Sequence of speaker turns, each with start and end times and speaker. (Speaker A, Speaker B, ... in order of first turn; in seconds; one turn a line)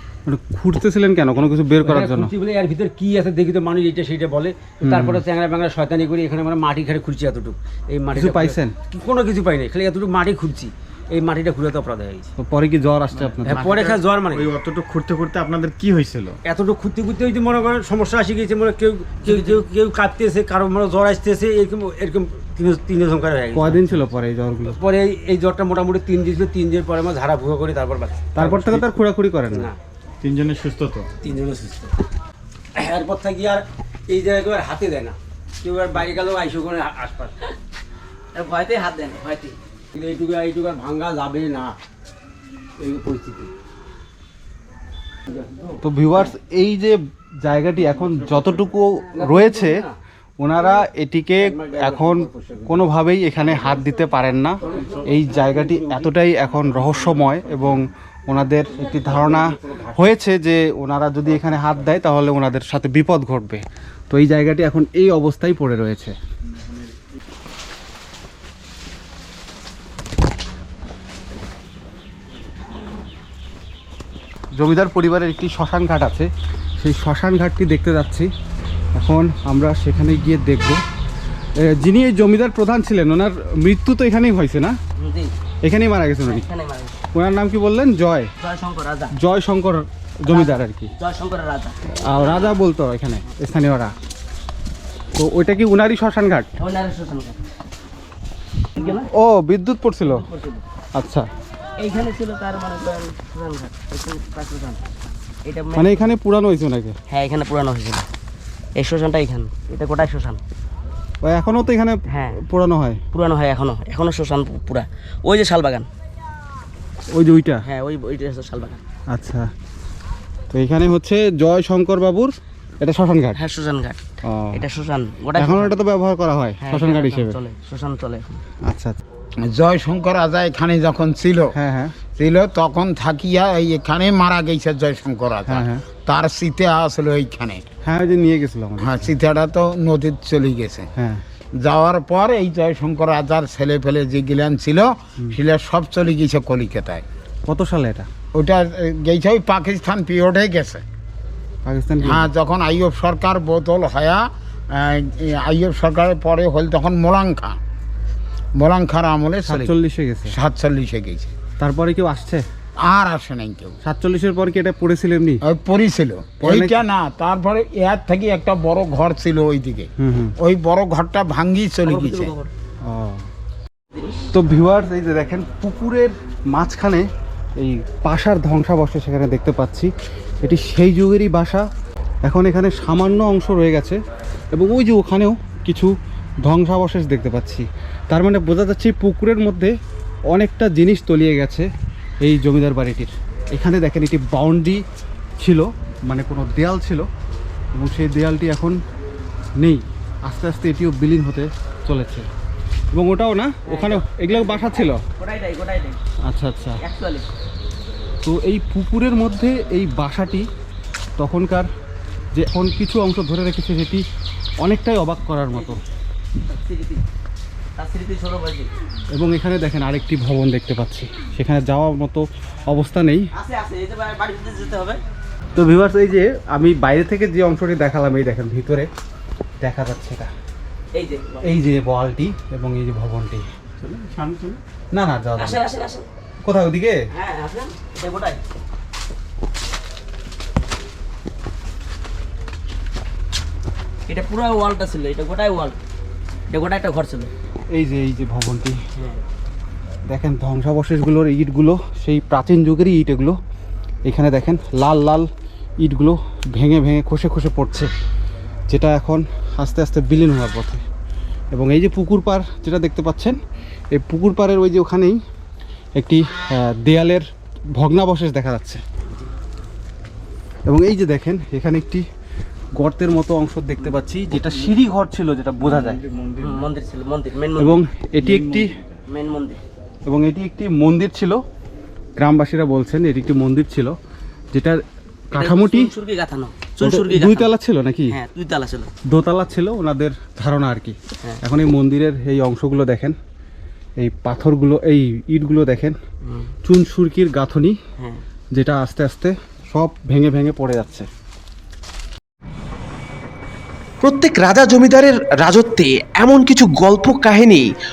Speaker A: 0.3-2.3
Speaker B: 1.8-12.3
Speaker A: 4.8-5.2
Speaker A: 8.1-8.7
Speaker A: 12.4-13.7
Speaker B: 13.5-14.5
Speaker C: 13.6-13.9
Speaker D: 13.6-16.4
Speaker B: 16.4-24.1
Speaker C: 19.3-19.6
Speaker A: 23.5-24.8
Speaker B: 24.7-29.0
Speaker A: 28.4-29.7
Speaker B: 29.5-29.8
Speaker D: 30.2-31.1
Speaker B: 31.2-31.9
Speaker B: 32.8-37.3
Speaker C: 38.3-39.6
Speaker B: 39.9-41.8
Speaker B: 42.8-43.5
Speaker B: 45.3-45.8
Speaker A: 45.8-49.8
Speaker B: 47.9-50.0
Speaker A: 50.4-66.1
Speaker B: 50.6-50.8
Speaker B: 51.4-54.0
Speaker B: 54.6-57.9
Speaker B: 58.7-60.1
Speaker B: 61.4-61.8
Speaker D: 66.5-66.9
Speaker A: 74.5-78.3
Speaker A: 79.0-80.8
Speaker A: 81.6-84.8
Speaker C: 85.0-85.3
Speaker A: 85.6-86.5
Speaker C: 86.2-87.0
Speaker A: 87.1-88.3
Speaker C: 88.4-89.2
Speaker A: 89.2-90.9
Speaker C: 90.3-92.2
Speaker A: 91.9-93.9
Speaker A: 95.2-96.5
Speaker C: 96.6-97.4
Speaker C: 98.8-99.1
Speaker A: 98.8-100.2
Speaker C: 100.0-100.6
Speaker A: 101.0-101.3
Speaker C: 101.8-104.8
Speaker C: 105.5-106.1
Speaker A: 105.8-107.0
Speaker C: 107.1-108.1
Speaker C: 108.8-110.4
Speaker A: 111.2-113.0
Speaker C: 112.1-112.4
Speaker C: 113.1-115.9
Speaker A: 117.1-117.6
Speaker C: 117.6-118.8
Speaker A: 119.1-119.5
Speaker A: 120.5-123.4
Speaker C: 123.4-124.0
Speaker A: 124.2-124.6
Speaker C: 124.5-125.8
Speaker A: 125.3-127.4
Speaker C: 126.6-128.4
Speaker A: 128.7-129.0
Speaker E: 129.4-131.6
Speaker A: 131.5-132.0
Speaker E: 132.2-137.7
Speaker A: 135.5-135.8
Speaker A: 137.8-139.1
Speaker E: 138.8-140.9
Speaker A: 141.0-141.2
Speaker E: 141.6-147.1
Speaker A: 147.5-148.1
Speaker E: 148.3-150.8
Speaker A: 151.7-152.3
Speaker E: 152.0-157.6
Speaker E: 158.6-159.7
Speaker A: 159.5-160.3
Speaker E: 160.3-161.3
Speaker A: 161.6-162.4
Speaker E: 162.8-163.8
Speaker A: 163.8-165.4
Speaker E: 165.4-172.3
Speaker A: 166.4-166.8
Speaker A: 170.0-170.3
Speaker C: 171.9-172.5
Speaker A: 172.8-173.3
Speaker C: 174.0-174.3
Speaker A: 174.3-181.7
Speaker A: 182.2-184.0
Speaker A: 184.5-189.7
Speaker A: 190.3-191.7
Speaker A: 192.2-194.8
Speaker A: 195.4-197.1
Speaker A: 197.7-198.8
Speaker A: 199.6-202.3
Speaker A: 202.9-205.0
Speaker C: 203.7-206.0
Speaker A: 206.3-206.8
Speaker C: 206.8-207.3
Speaker A: 208.2-210.5
Speaker A: 211.2-211.7
Speaker A: 212.3-214.1
Speaker A: 214.6-215.8
Speaker C: 215.5-215.8
Speaker C: 216.4-217.0
Speaker C: 217.8-218.7
Speaker A: 219.1-223.3
Speaker C: 223.3-225.0
Speaker A: 225.6-228.9
Speaker A: 229.6-230.3
Speaker C: 230.9-231.5
Speaker A: 231.4-233.5
Speaker D: 233.8-234.6
Speaker A: 234.9-235.6
Speaker C: 235.4-236.1
Speaker A: 236.4-237.0
Speaker C: 237.1-238.4
Speaker C: 244.1-245.8
Speaker C: 246.5-247.3
Speaker A: 247.7-248.8
Speaker A: 250.1-253.4
Speaker A: 254.1-255.3
Speaker A: 255.8-257.9
Speaker A: 258.7-260.8
Speaker A: 261.5-263.4
Speaker A: 263.9-265.2
Speaker A: 266.0-268.8
Speaker A: 270.7-272.1
Speaker A: 272.7-276.0
Speaker D: 274.4-274.7
Speaker D: 275.6-276.6
Speaker C: 276.4-277.8
Speaker A: 277.6-278.7
Speaker D: 278.2-278.8
Speaker C: 279.1-279.6
Speaker A: 280.1-281.4
Speaker A: 282.2-283.9
Speaker A: 284.5-285.9
Speaker C: 285.4-287.5
Speaker A: 286.8-288.1
Speaker C: 288.1-288.9
Speaker A: 289.1-293.2
Speaker A: 294.0-296.0
Speaker C: 296.2-296.5
Speaker A: 296.6-297.8
Speaker A: 298.5-301.1
Speaker F: 304.0-307.7